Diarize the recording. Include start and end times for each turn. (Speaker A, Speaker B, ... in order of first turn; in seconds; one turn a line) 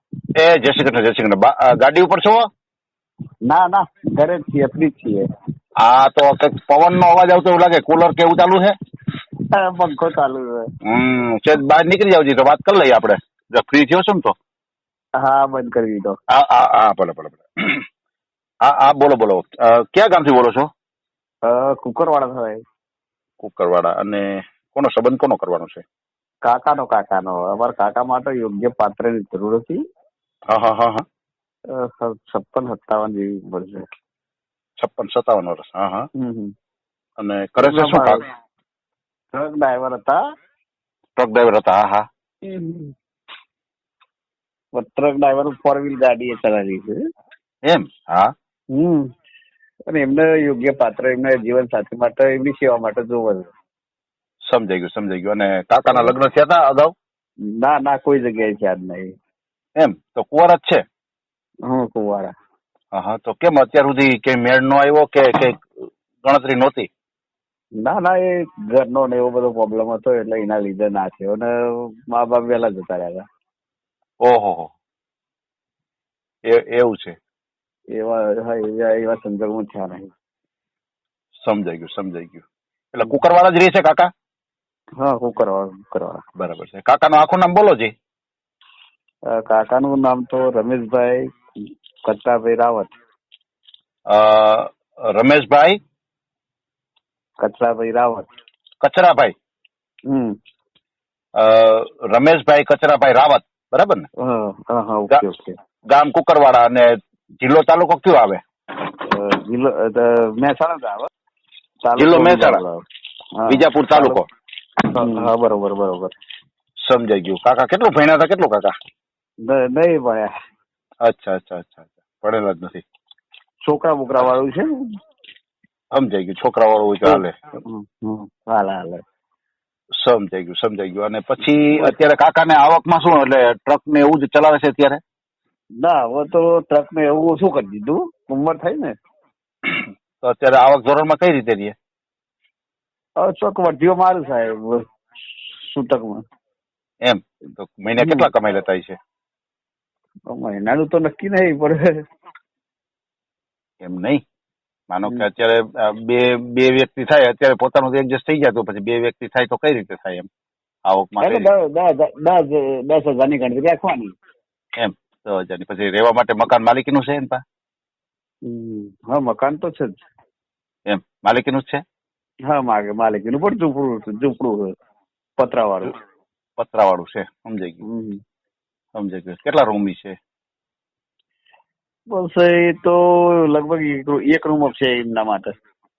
Speaker A: 0.4-2.5
Speaker B: 3.5-5.2
Speaker A: 5.8-8.8
Speaker B: 9.5-10.6
Speaker A: 10.8-14.3
Speaker B: 15.2-16.2
Speaker A: 16.3-17.9
Speaker A: 18.6-20.7
Speaker B: 21.4-22.6
Speaker A: 23.4-25.8
Speaker B: 26.4-29.8
Speaker A: 30.5-31.1
Speaker B: 31.7-33.9
Speaker A: 34.8-36.1
Speaker B: 36.2-36.5
Speaker A: 37.2-38.2
Speaker B: 37.6-38.2
Speaker B: 39.3-40.2
Speaker A: 41.2-42.1
Speaker B: 42.4-42.9
Speaker B: 44.8-47.0
Speaker A: 47.7-48.3
Speaker B: 48.7-49.1
Speaker B: 49.9-53.5
Speaker A: 54.5-56.9
Speaker B: 57.5-59.1
Speaker A: 59.8-60.8
Speaker B: 61.7-62.3
Speaker A: 62.9-65.7
Speaker A: 66.2-66.9
Speaker B: 67.8-73.2
Speaker A: 74.2-74.7
Speaker A: 76.5-77.2
Speaker B: 77.9-80.1
Speaker A: 81.4-84.1
Speaker B: 85.0-86.2
Speaker A: 86.4-87.9
Speaker B: 89.3-92.9
Speaker A: 94.1-95.8
Speaker B: 97.4-98.3
Speaker A: 98.8-99.3
Speaker B: 100.1-100.4
Speaker A: 101.4-104.1
Speaker B: 104.2-105.6
Speaker A: 105.9-108.4
Speaker B: 109.0-111.1
Speaker B: 111.8-112.8
Speaker A: 112.0-112.6
Speaker B: 113.4-114.2
Speaker A: 113.5-114.2
Speaker B: 114.9-116.1
Speaker A: 116.8-118.7
Speaker B: 119.4-120.3
Speaker A: 121.0-122.8
Speaker B: 123.7-124.8
Speaker A: 125.9-127.4
Speaker B: 127.0-129.0
Speaker A: 130.0-135.0
Speaker B: 131.7-132.0
Speaker B: 135.8-138.9
Speaker A: 139.6-141.8
Speaker B: 143.2-144.8
Speaker B: 145.4-146.2
Speaker A: 147.0-149.0
Speaker B: 148.0-148.3
Speaker B: 150.3-152.0
Speaker A: 153.8-154.2
Speaker A: 154.9-160.3
Speaker A: 160.9-161.5
Speaker B: 161.2-164.1
Speaker A: 164.8-167.4
Speaker B: 168.4-170.0
Speaker A: 170.9-171.8
Speaker B: 172.5-174.7
Speaker B: 175.4-176.0
Speaker A: 176.6-177.8
Speaker B: 177.8-178.2
Speaker A: 178.9-180.2
Speaker B: 182.1-185.5